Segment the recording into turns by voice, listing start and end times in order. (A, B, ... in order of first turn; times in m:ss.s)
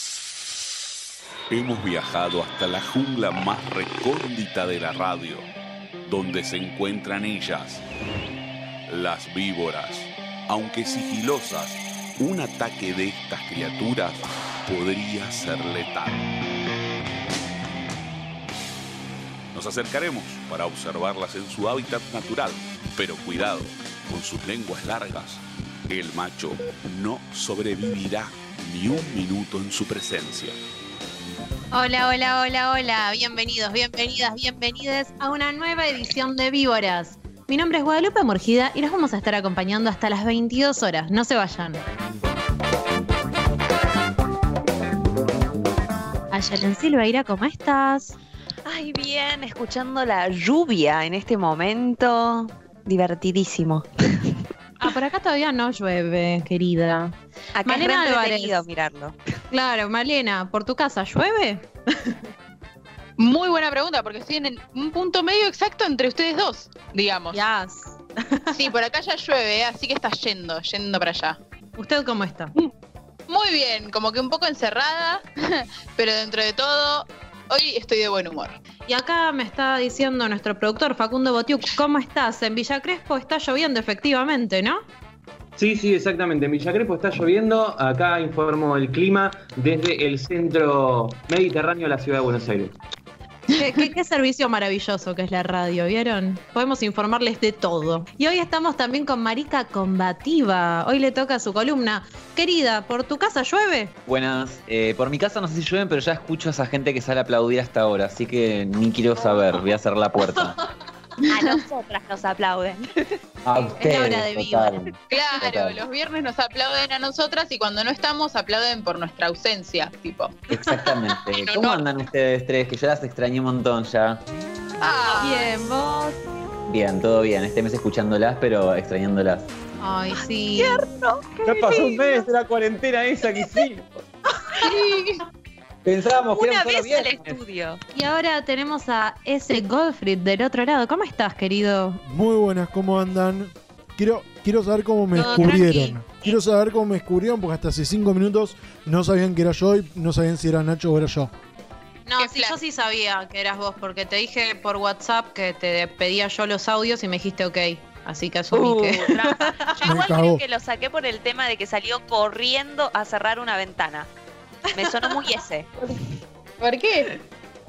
0:01.5-0:05.5 A
0:06.1-0:07.8 A
0:08.9-0:16.2 A
0:19.5-0:30.6 A
0:31.7-0:41.8 B
0:46.3-0:48.2 B
0:48.6-0:54.4 C
0:54.8-0:57.1 B
0:57.5-0:59.1 C
0:57.6-0:58.6 B
0:59.5-1:02.1 B
1:03.2-1:07.4 D
1:07.3-1:08.6 B
1:08.5-1:11.4 D
1:11.8-1:12.5 B
1:13.3-1:18.6 D
1:18.9-1:24.8 B
1:25.6-1:32.8 E
1:33.6-1:43.9 B
1:44.0-1:50.6 F
1:51.3-1:53.1 C
1:53.4-1:55.8 F
1:53.7-1:54.8 B
1:55.1-2:00.3 D
2:00.5-2:04.2 F
2:04.8-2:05.5 D
2:05.2-2:06.2 B
2:06.7-2:09.5 F
2:09.8-2:10.8 B
2:10.6-2:11.3 C
2:11.4-2:13.9 F
2:15.8-2:17.4 F
2:16.3-2:17.8 C
2:17.9-2:22.0 B
2:22.0-2:31.3 G
2:25.1-2:26.4 C
2:32.1-2:39.4 B
2:32.2-2:32.6 D
2:38.5-2:44.1 C
2:39.8-2:40.4 G
2:44.7-2:45.7 C
2:46.6-2:47.1 D